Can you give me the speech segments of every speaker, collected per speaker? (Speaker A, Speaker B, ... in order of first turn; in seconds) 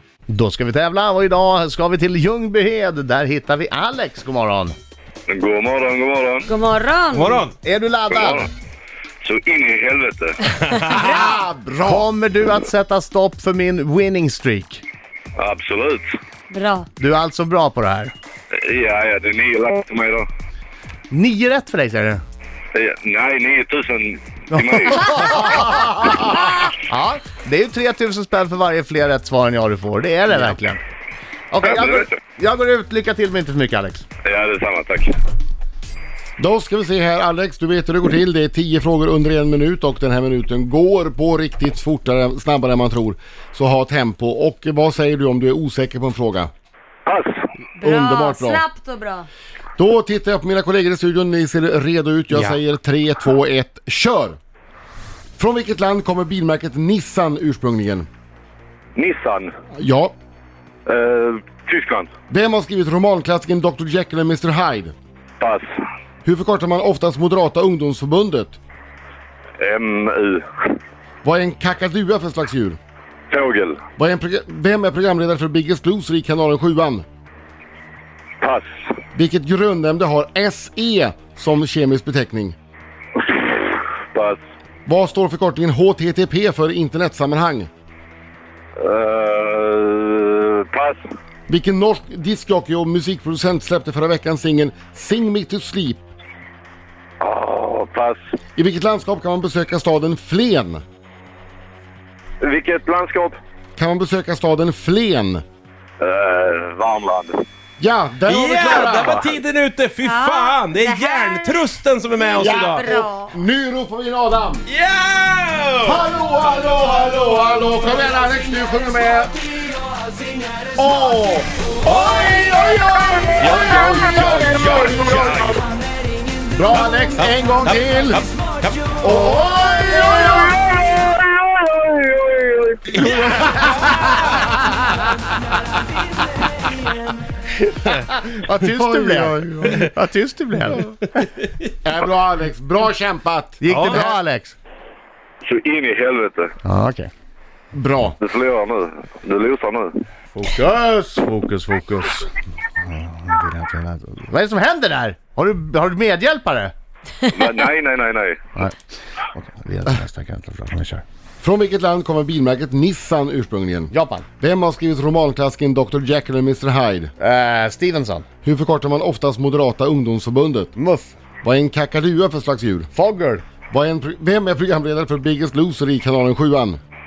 Speaker A: 0.3-4.8, 7.6-8.5, 11.8-14.8, 17.0-18.1, 21.1-22.2, 24.6-30.8, 31.5-34.1, 129.4-130.1, 137.9-140.9, 143.6-144.6, 146.7-147.1, 150.3-152.3, 152.8-156.7, 159.3-161.0, 163.9-164.3, 167.2-168.3, 170.8-171.2, 172.9-173.4
Speaker B: 5.3-6.5, 8.1-8.5, 9.2-10.8, 15.4-16.1, 18.6-20.3, 22.7-25.4, 31.6-32.1, 34.2-35.2, 47.1-47.4, 59.0-59.5, 60.9-62.1, 65.4-65.7, 69.6-70.8, 73.3-73.8, 78.4-78.7, 83.2-84.4, 88.8-91.0, 97.2-98.2, 102.4-103.4, 106.0-107.3, 108.6-109.3, 123.4-125.5, 129.9-133.1, 145.4-146.5, 148.2-150.0, 157.3-158.4
Speaker C: 6.5-7.5, 10.9-11.3, 16.5-16.9, 47.8-49.3, 110.0-111.6, 112.2-113.3
Speaker D: 7.1-7.5, 108.3-112.8, 114.7-116.0, 121.8-122.5, 123.4-125.6, 127.2-129.0, 133.0-133.6, 143.7-144.2
Speaker E: 10.9-12.1, 36.4-46.5, 47.8-48.6, 49.8-54.4, 55.4-58.1, 59.7-60.1, 62.3-65.0, 66.2-68.6, 71.2-72.8, 74.0-77.0, 79.2-82.6, 84.9-87.7, 91.5-96.0, 98.6-100.8, 103.8-105.4, 107.8-109.2, 112.4-114.7, 115.8-119.4, 120.7-125.6, 126.5-128.2, 129.0-130.6, 133.0-134.8, 138.7-139.9, 141.8-144.0, 147.7-148.2, 161.4-167.1, 168.4-170.7, 171.4-172.9, 173.7-176.8